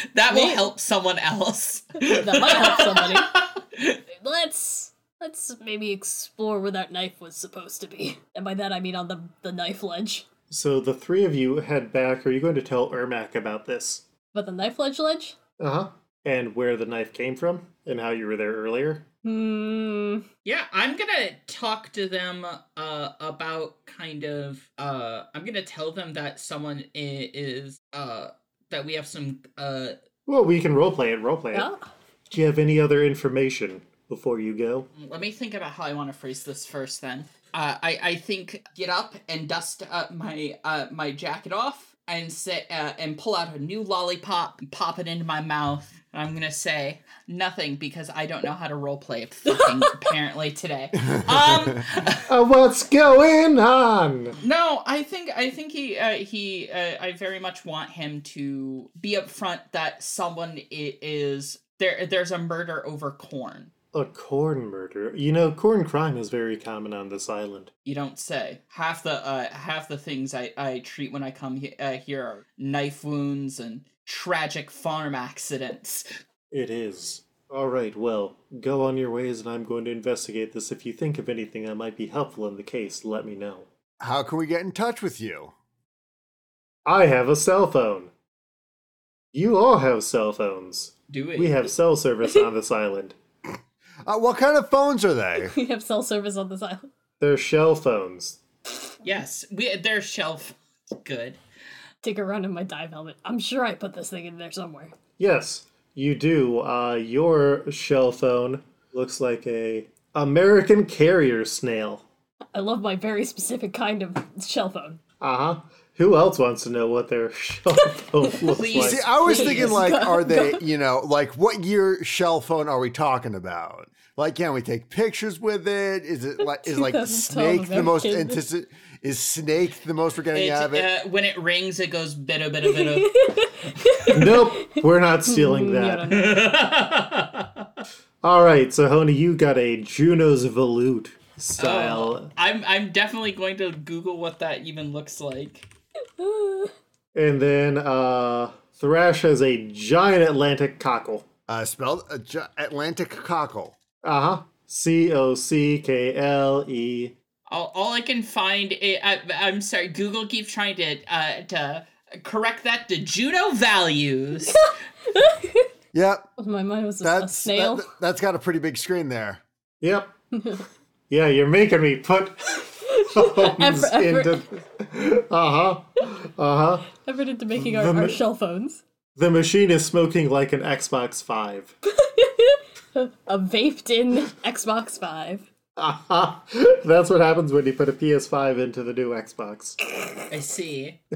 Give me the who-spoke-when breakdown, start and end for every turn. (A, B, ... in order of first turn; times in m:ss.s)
0:00.1-0:04.0 A
0:00.3-0:00.7 B
0:02.0-0:03.3 B
0:04.1-0:10.2 B
0:10.5-0:14.0 C
0:14.3-0:15.4 B
0:15.6-0:19.0 C
0:19.2-0:20.2 B
0:20.4-0:30.0 A
0:30.2-0:31.7 C
0:31.5-0:31.8 B
0:32.3-0:34.9 C
0:35.0-0:52.2 A
0:49.5-0:49.9 B
0:51.1-0:51.8 D
0:52.3-0:54.4 C
0:54.4-1:03.7 A
1:03.9-1:07.7 C
1:07.8-1:16.1 A
1:16.5-1:23.7 C
1:24.0-1:25.5 D
1:26.8-1:28.1 C
1:29.3-1:33.2 C
1:31.1-1:31.7 A
1:34.0-1:35.5 D
1:35.4-1:36.8 B
1:37.2-1:38.4 C
1:39.0-1:41.4 A
1:42.0-1:44.9 B
1:45.2-1:52.0 C
1:52.5-1:55.0 B
1:55.2-1:59.0 C
1:58.4-1:59.8 A
1:58.8-2:10.9 D
1:59.2-2:00.6 B
2:06.4-2:08.4 B
2:10.3-2:14.4 A
2:12.7-2:16.4 B
2:14.1-2:16.1 C
2:16.1-2:17.7 A
2:18.2-2:22.3 C
2:21.6-2:25.7 A
2:26.2-2:26.7 B
2:27.1-2:31.2 C
2:31.5-2:33.8 D
2:34.0-2:37.1 C
2:37.5-2:44.7 A
2:44.5-2:45.7 B
2:45.9-2:46.3 D
2:46.4-2:47.9 B
2:47.0-2:49.4 D
2:49.8-2:50.1 C
2:50.3-2:50.6 B
2:51.1-2:56.9 C
2:52.9-2:54.4 B
2:57.0-2:58.8 B
2:57.6-2:58.2 C
2:59.2-3:01.7 C
3:02.0-3:05.4 B
3:05.8-3:09.8 C
3:10.3-3:11.0 A